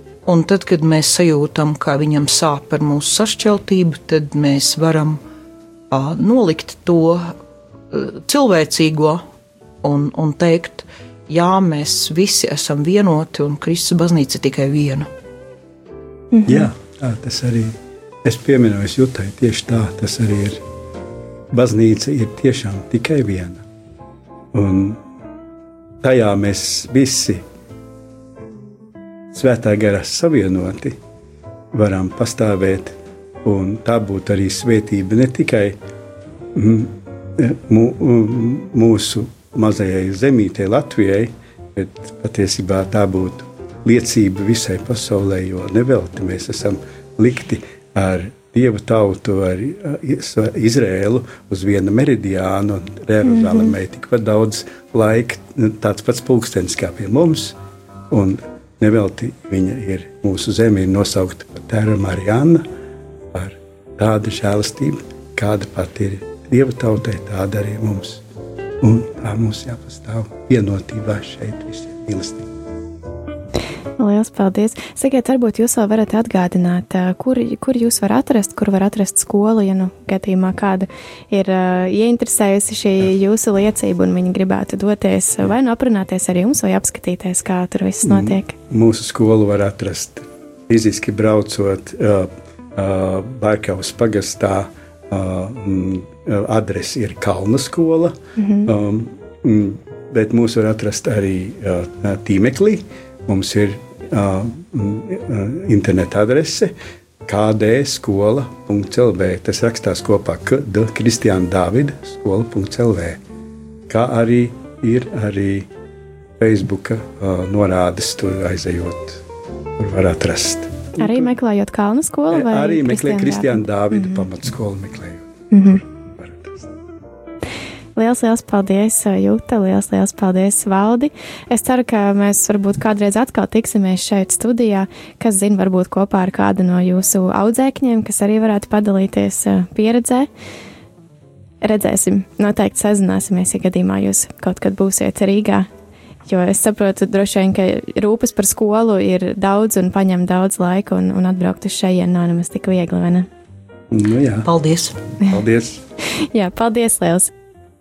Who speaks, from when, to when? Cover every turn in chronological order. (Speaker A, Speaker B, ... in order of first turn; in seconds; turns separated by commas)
Speaker A: 0.2-5.2, Speaker A: 5.9-7.3, Speaker A: 7.9-9.2, Speaker A: 9.8-15.1, Speaker B: 16.3-16.7, Speaker C: 16.4-20.6, Speaker C: 21.5-23.6, Speaker C: 24.5-25.0, Speaker C: 26.0-27.4, Speaker C: 29.3-31.0, Speaker C: 31.7-35.8, Speaker C: 36.5-57.5, Speaker B: 53.4-53.7, Speaker C: 58.1-62.6, Speaker C: 63.3-68.2, Speaker C: 68.8-72.5, Speaker B: 74.0-88.5, Speaker C: 88.0-106.7, Speaker B: 98.4-98.7, Speaker C: 107.2-113.2, Speaker C: 113.9-115.7, Speaker C: 116.4-119.2, Speaker C: 119.8-121.3, Speaker B: 121.0-124.2, Speaker C: 122.3-126.7, Speaker B: 125.5-125.8, Speaker B: 128.0-140.3, Speaker B: 141.6-145.7, Speaker B: 146.3-153.3, Speaker C: 153.9-154.5, Speaker A: 154.4-155.0, Speaker C: 155.3-155.8, Speaker B: 156.3-157.3